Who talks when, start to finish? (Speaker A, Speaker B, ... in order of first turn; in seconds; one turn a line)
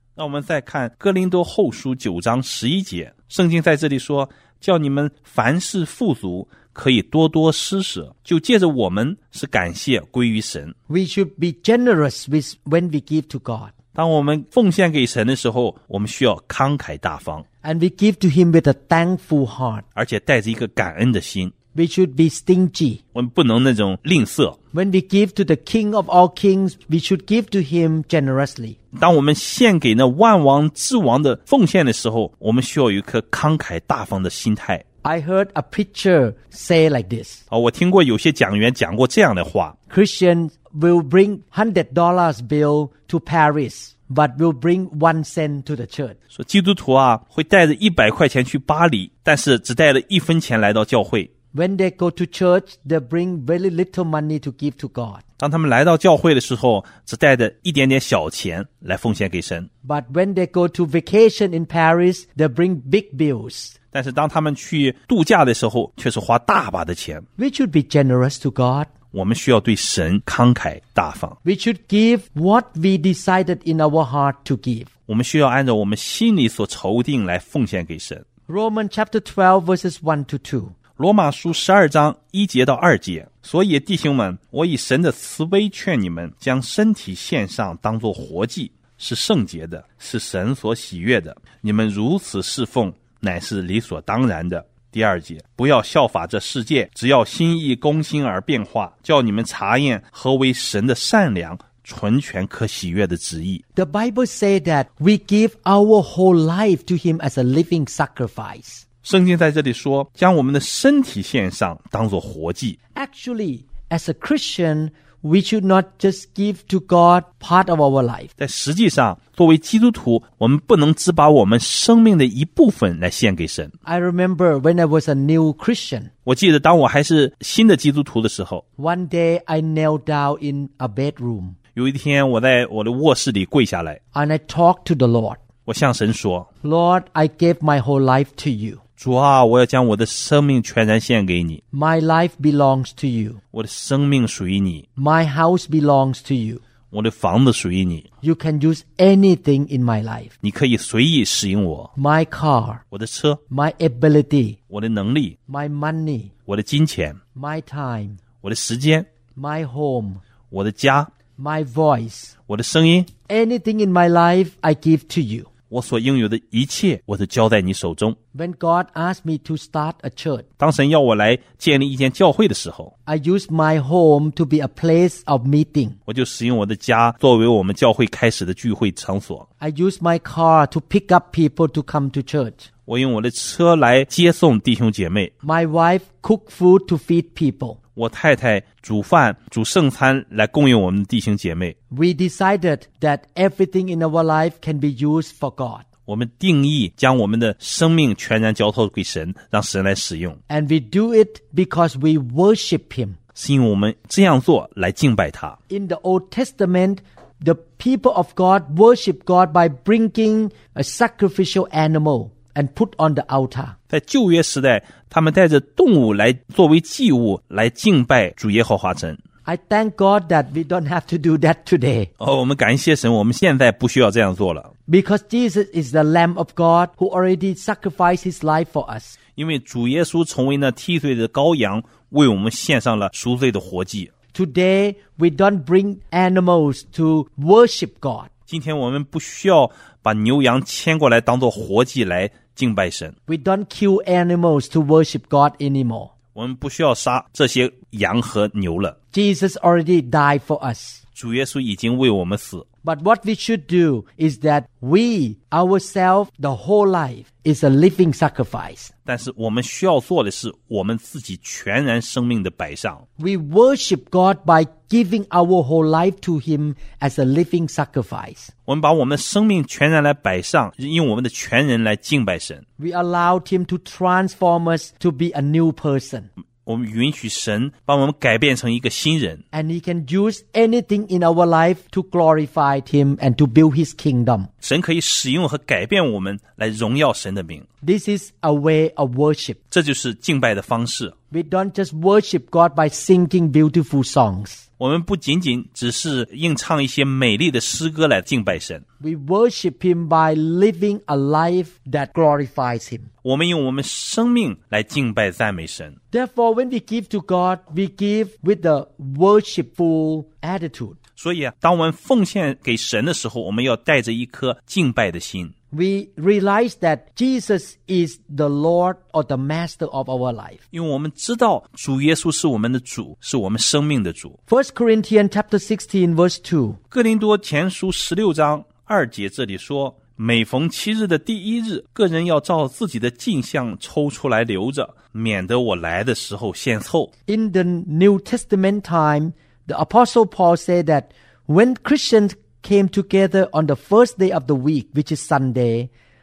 Speaker A: 0.1-10.7
Speaker B: 10.9-13.7
Speaker A: 13.9-17.4
Speaker B: 17.6-19.8
Speaker A: 19.9-21.5
Speaker B: 21.7-23.0
Speaker A: 23.1-24.6
Speaker B: 24.7-28.8
Speaker A: 28.9-34.8
Speaker B: 35.0-37.4
Speaker A: 37.5-39.8
Speaker B: 39.9-46.1
Speaker A: 46.3-51.3
Speaker B: 51.5-55.2
Speaker A: 55.4-59.7
Speaker B: 59.8-63.7
Speaker A: 63.9-67.2
Speaker B: 67.4-68.9
Speaker A: 69.1-71.3
Speaker B: 71.4-74.9
Speaker A: 75.1-78.2
Speaker B: 78.5-80.7
Speaker A: 81.0-103.6
Speaker B: 103.7-108.8
Speaker A: 109.0-112.8
Speaker B: 112.9-118.3
Speaker A: 118.4-123.7
Speaker B: 123.8-126.1
Speaker A: 126.2-128.6
Speaker B: 128.8-131.6
Speaker A: 131.7-134.0
Speaker B: 134.1-135.4
Speaker A: 135.7-136.5
Speaker B: 136.6-138.8
Speaker A: 139.0-141.6
Speaker B: 141.7-143.4
Speaker A: 143.5-144.8
Speaker B: 145.0-146.6
Speaker A: 146.9-148.1
Speaker B: 148.2-150.3
Speaker A: 150.4-151.9
Speaker B: 151.9-152.8
Speaker A: 152.9-153.4
Speaker B: 153.5-154.6
Speaker A: 154.7-155.4
Speaker B: 155.5-156.3
Speaker A: 156.5-157.2
Speaker B: 157.3-158.2
Speaker A: 158.4-159.1
Speaker B: 159.3-160.2
Speaker A: 160.5-161.1
Speaker B: 161.4-162.3
Speaker A: 162.5-163.1
Speaker B: 163.3-165.5
Speaker A: 165.7-168.2
Speaker B: 168.3-170.4
Speaker A: 170.6-172.9
Speaker B: 173.1-176.0
Speaker A: 176.1-179.4
Speaker B: 179.6-182.7
Speaker A: 182.9-185.3
Speaker B: 185.4-187.8
Speaker A: 187.9-191.8
Speaker B: 191.9-195.8
Speaker A: 196.1-200.4
Speaker B: 200.5-203.2
Speaker A: 203.3-205.6
Speaker B: 205.7-213.8
Speaker A: 213.9-219.2
Speaker B: 219.4-222.1
Speaker A: 222.2-224.7
Speaker B: 224.9-229.2
Speaker A: 229.3-234.1
Speaker B: 234.3-238.3
Speaker A: 238.5-243.1
Speaker B: 243.3-246.1
Speaker A: 246.3-248.9
Speaker B: 249.1-251.0
Speaker A: 251.1-252.7
Speaker B: 252.8-258.9
Speaker A: 259.1-263.0
Speaker B: 263.2-268.5
Speaker A: 268.7-272.6
Speaker B: 272.8-276.3
Speaker A: 276.6-279.4
Speaker B: 279.5-284.5
Speaker A: 284.6-287.6
Speaker B: 287.8-289.6
Speaker A: 289.7-291.1
Speaker B: 291.3-294.6
Speaker A: 294.8-298.8
Speaker B: 299.0-303.1
Speaker A: 303.2-306.0
Speaker B: 306.1-311.0
Speaker A: 311.2-315.5
Speaker B: 315.7-320.6
Speaker A: 320.7-324.4
Speaker B: 324.5-326.8
Speaker A: 326.9-337.1
Speaker B: 337.3-345.9